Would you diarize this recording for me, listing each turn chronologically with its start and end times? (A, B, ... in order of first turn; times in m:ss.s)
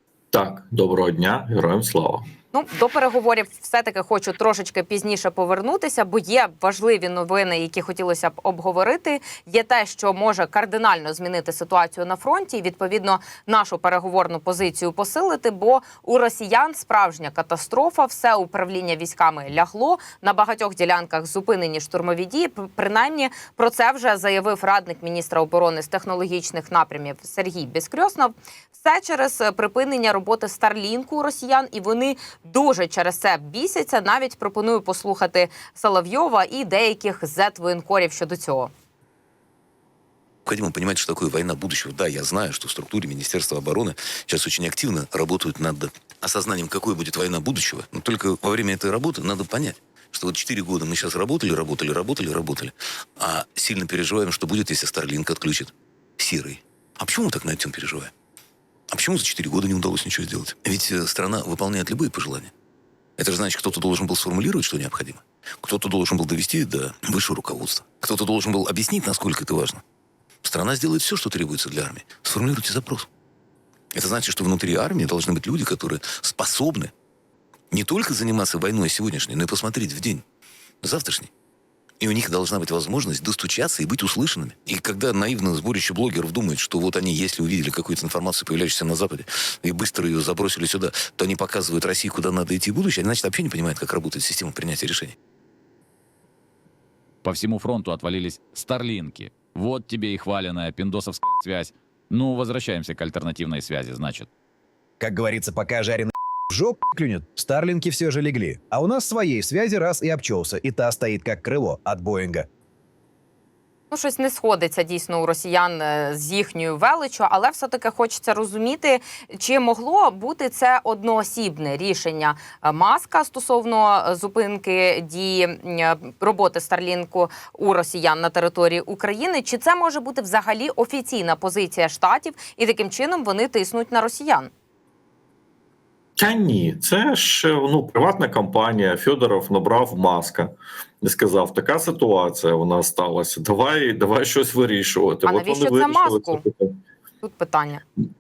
0:00.3-0:02.2 A
0:02.5-0:38.7 B
0:40.5-0:58.1 C
0:58.9-1:02.5 C
1:03.2-1:09.8 C
1:10.4-1:13.1 C
1:13.9-1:16.9 C
1:17.7-1:20.2 C
1:20.8-1:21.3 C
1:22.0-1:35.2 C
1:37.2-1:44.3 D
1:45.0-1:52.5 E
1:53.9-2:14.5 B
2:16.2-2:26.8 A
2:25.3-2:26.4 B
2:27.2-2:27.8 B